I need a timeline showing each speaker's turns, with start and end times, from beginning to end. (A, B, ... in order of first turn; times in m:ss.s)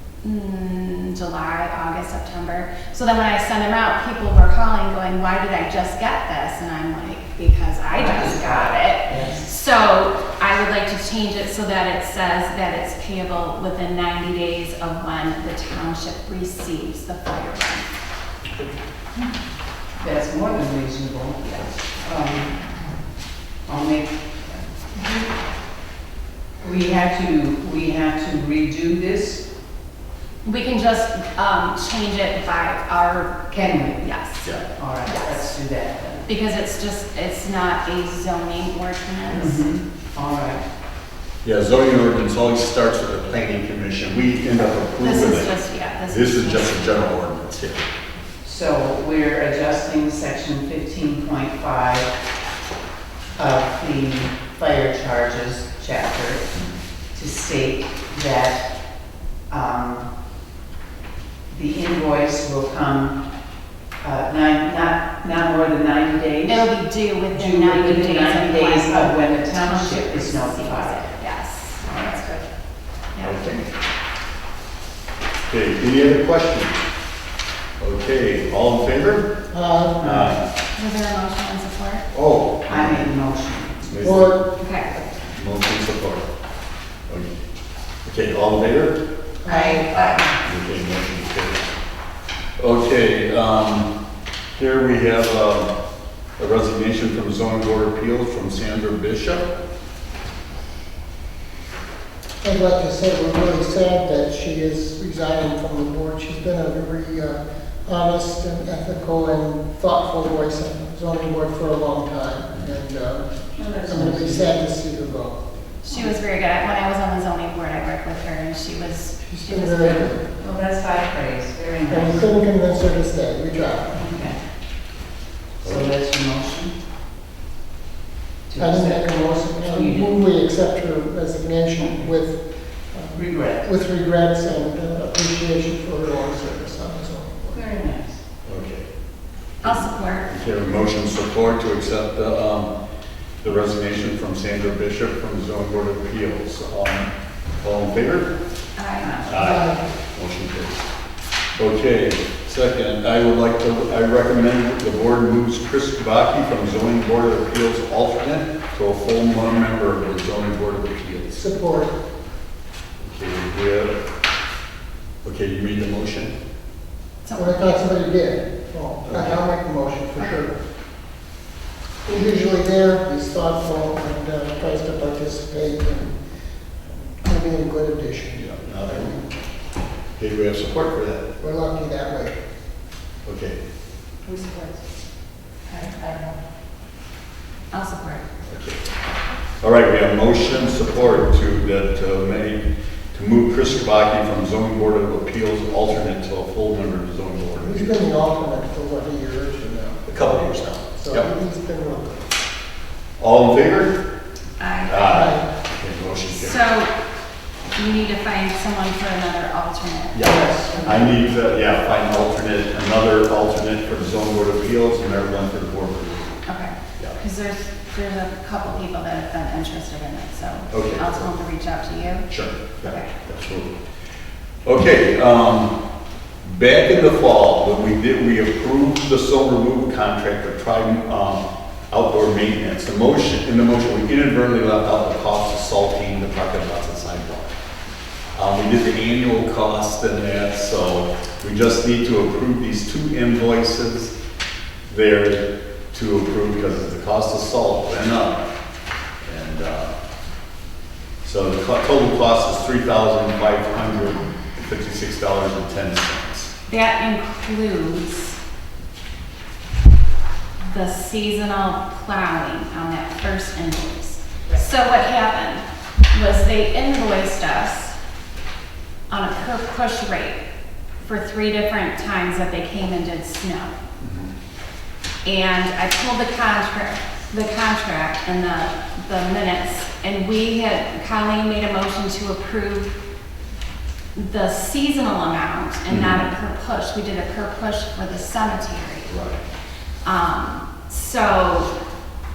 0:00.2-0:18.0 A
0:07.9-0:09.5 B
0:20.0-0:22.6 B
0:23.7-0:25.1 B
0:26.6-0:29.4 B
0:30.4-0:34.5 A
0:33.5-0:34.1 B
0:34.7-0:36.3 B
0:35.0-0:35.5 A
0:36.3-0:39.7 A
0:39.3-0:40.6 B
0:41.4-0:45.5 C
0:45.0-0:47.1 A
0:46.1-0:47.9 C
0:48.4-0:52.1 B
0:53.4-0:56.5 B
0:57.1-0:58.7 B
0:59.5-1:00.1 B
1:01.5-1:03.2 B
1:04.0-1:06.7 B
1:06.4-1:12.4 A
1:07.3-1:11.1 B
1:11.8-1:12.1 B
1:13.1-1:13.5 A
1:13.2-1:13.7 C
1:15.5-1:16.8 C
1:17.8-1:19.3 C
1:19.5-1:20.3 D
1:20.0-1:20.4 B
1:20.0-1:20.4 C
1:20.7-1:22.0 A
1:22.1-1:23.1 C
1:22.7-1:24.2 B
1:23.9-1:24.3 C
1:24.0-1:24.5 D
1:24.6-1:24.9 A
1:25.3-1:26.3 C
1:27.1-1:27.4 C
1:28.0-1:29.0 C
1:29.4-1:29.9 D
1:29.4-1:30.4 A
1:29.9-1:31.7 C
1:32.6-1:33.9 C
1:34.6-1:35.7 C
1:36.4-1:39.5 C
1:42.4-1:55.4 D
1:53.6-1:54.5 B
1:55.8-2:00.1 A
1:59.2-2:00.3 D
2:00.4-2:02.3 B
2:01.9-2:04.1 D
2:04.0-2:04.4 B
2:05.6-2:06.7 B
2:05.6-2:05.9 C
2:08.5-2:10.2 B
2:08.6-2:17.6 D
2:11.8-2:12.1 B
2:13.1-2:13.7 B
2:17.5-2:18.2 B
2:18.4-2:18.9 C
2:19.6-2:20.3 A
2:19.6-2:22.7 C
2:23.4-2:27.1 C
2:27.6-2:28.3 C
2:28.8-2:29.2 A
2:29.0-2:29.4 B
2:29.2-2:30.8 C
2:29.3-2:29.9 D
2:31.6-2:41.4 C
2:41.4-2:41.9 D
2:43.0-2:43.9 C
2:45.2-2:46.3 C
2:47.2-2:47.7 A
2:47.3-2:50.5 D
2:49.0-2:49.4 C
2:52.0-2:56.2 D
2:56.9-2:59.3 D
2:58.4-2:59.1 C
3:00.2-3:01.3 C
3:01.4-3:02.4 D
3:03.2-3:03.6 C
3:04.4-3:04.7 B
3:05.8-3:06.2 B
3:07.7-3:08.2 A
3:08.5-3:08.8 C
3:09.6-3:12.6 C
3:13.1-3:17.9 C
3:17.6-3:22.3 D
3:20.0-3:21.3 C
3:23.2-3:24.0 C
3:24.6-3:25.3 A
3:24.9-3:26.6 C
3:25.1-3:25.5 D
3:26.3-3:26.9 A
3:27.7-3:31.1 A
3:30.1-3:36.4 C
3:30.2-3:31.2 D
3:36.4-3:42.3 A
3:40.7-3:41.2 C
3:42.3-3:43.7 C
3:42.8-3:43.1 A
3:44.6-3:45.7 C
3:46.4-3:57.5 C
3:58.4-4:04.1 C
4:04.9-4:08.4 C
4:09.2-4:09.9 C
4:11.2-4:16.5 C
4:16.7-4:18.4 A
4:20.6-4:28.0 A
4:29.1-4:30.4 A
4:31.0-4:33.8 A
4:34.0-4:34.3 C
4:35.2-4:43.0 A
4:44.2-4:49.1 A
4:45.9-4:46.3 C
4:49.1-4:49.4 C
4:50.0-4:51.7 A